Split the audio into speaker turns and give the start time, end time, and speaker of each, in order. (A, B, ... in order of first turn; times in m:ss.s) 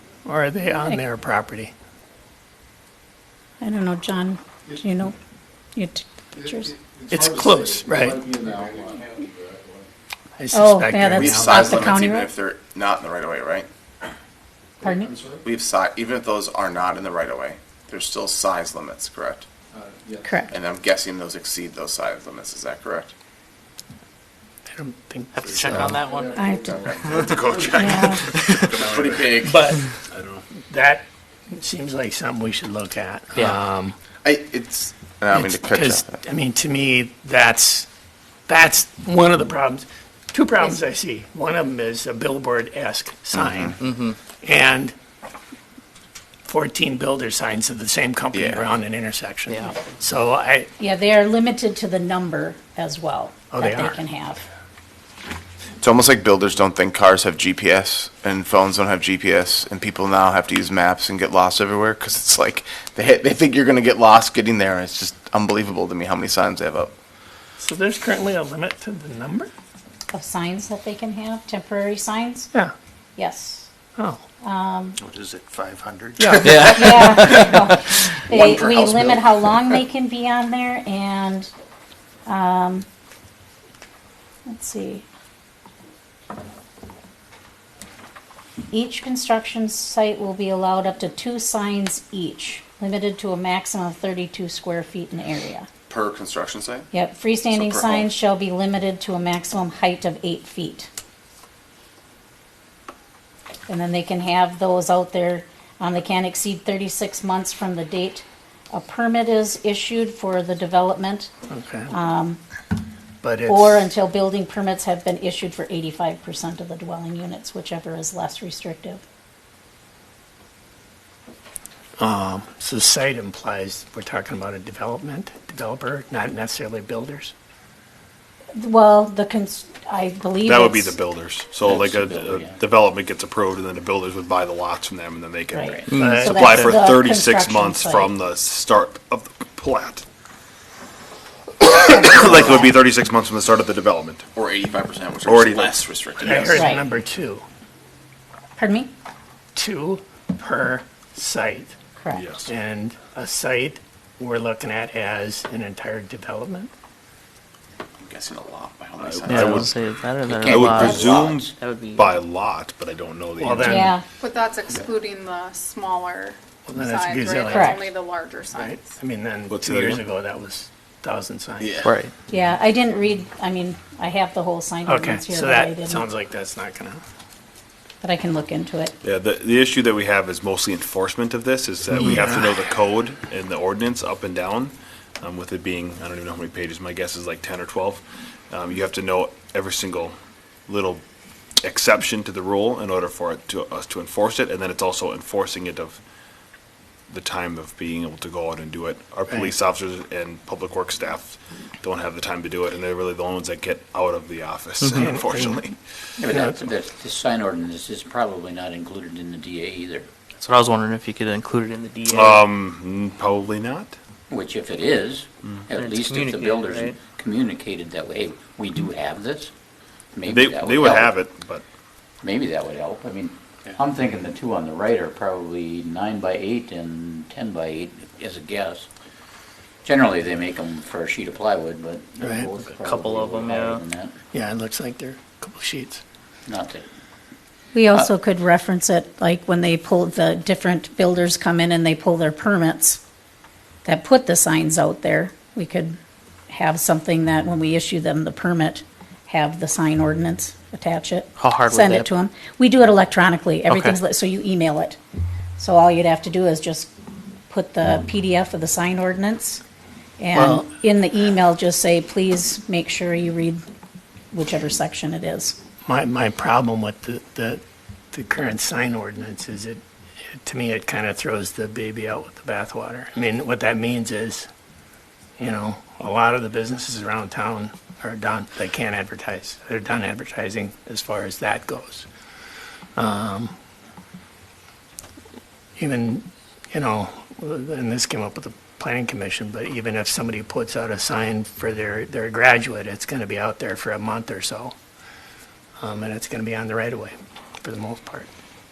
0:00.2-0:01.7 A
0:03.6-0:05.1 B
0:05.7-0:06.7 B
0:07.1-0:08.2 A
0:08.1-0:09.6 C
0:10.4-0:12.0 A
0:10.5-0:12.3 B
0:11.1-0:13.7 D
0:14.8-0:15.1 B
0:15.3-0:19.4 D
0:20.2-0:20.5 B
0:20.5-0:23.1 D
0:24.7-0:26.1 A
0:25.3-0:26.4 E
0:26.2-0:27.7 C
0:26.4-0:26.8 B
0:26.7-0:27.2 D
0:26.9-0:27.3 E
0:27.2-0:29.3 F
0:27.7-0:28.2 B
0:28.3-0:28.7 E
0:28.8-0:29.6 D
0:29.4-0:29.9 A
0:30.1-0:30.4 F
0:30.7-0:34.0 A
0:34.2-0:36.1 D
0:35.3-0:37.9 A
0:38.5-0:44.9 A
0:43.8-0:44.1 E
0:46.4-0:50.7 A
0:48.3-0:48.7 D
0:49.5-0:49.8 E
0:50.8-0:54.5 B
0:53.5-0:54.0 A
0:55.8-1:06.9 D
1:07.6-1:09.5 A
1:10.1-1:12.5 B
1:13.2-1:13.7 B
1:14.0-1:14.2 A
1:14.4-1:15.0 B
1:16.2-1:16.6 A
1:16.3-1:17.5 E
1:16.6-1:21.5 B
1:18.3-1:19.3 D
1:22.2-1:22.8 B
1:24.4-1:25.0 B
1:28.7-1:35.7 B
1:35.9-1:36.9 D
1:36.9-1:40.9 B
1:37.5-1:38.1 D
1:43.7-1:51.3 B
1:51.5-1:51.9 A
1:51.9-1:52.4 B
1:53.2-1:53.9 A
1:53.5-1:59.0 B
2:02.0-2:07.3 A
2:08.5-2:11.0 B
2:10.4-2:20.0 F
2:11.6-2:12.6 G
2:15.5-2:18.1 B
2:15.9-2:16.7 E
2:15.9-2:16.4 A
2:21.6-2:24.2 F
2:21.9-2:22.7 B
2:24.3-2:26.7 D
2:25.2-2:26.4 F
2:26.2-2:27.4 A
2:26.5-2:26.8 B
2:28.6-2:28.9 B
2:29.5-2:31.7 A
2:32.0-2:32.3 B
2:32.1-2:32.5 F
2:32.4-2:36.7 A
2:38.0-2:39.7 D
2:39.0-2:39.7 F
2:39.3-2:42.1 E
2:40.2-2:41.6 G
2:40.5-2:43.9 F
2:43.4-2:44.0 A
2:43.6-2:44.0 B
2:44.2-2:48.9 H
2:46.7-2:47.9 A
2:47.5-2:47.8 B
2:48.5-2:51.8 A
2:49.5-2:50.0 F
2:51.6-2:51.9 D
2:51.8-2:52.1 E
2:52.3-2:56.0 B
2:54.8-2:57.0 A
2:58.0-2:58.9 B
2:59.0-3:10.1 F
3:02.1-3:02.5 A
3:10.7-3:11.0 F
3:11.6-3:16.0 F
3:17.1-3:25.7 F
3:24.9-3:25.6 A
3:25.0-3:25.7 D
3:26.2-3:30.1 G
3:26.3-3:26.6 A
3:30.4-3:32.4 E
3:32.1-3:34.0 F
3:34.3-3:39.5 G
3:35.7-3:37.0 E
3:40.1-3:41.1 G
3:40.2-3:41.6 F
3:42.2-3:48.9 G
3:49.8-3:54.2 G
3:52.2-3:52.5 A
3:52.6-3:53.8 E
3:54.3-3:56.0 A
3:56.4-3:56.9 G
3:57.7-4:03.0 B
4:03.8-4:06.0 B
4:06.5-4:15.0 B
4:11.4-4:12.1 E
4:13.7-4:14.0 E
4:15.6-4:16.9 B
4:17.5-4:19.6 B
4:20.2-4:23.6 B
4:20.3-4:20.6 A
4:24.3-4:25.6 B
4:25.8-4:34.5 A
4:35.4-4:42.1 A
4:43.0-4:43.5 A
4:45.8-4:54.7 A
4:55.8-4:58.3 A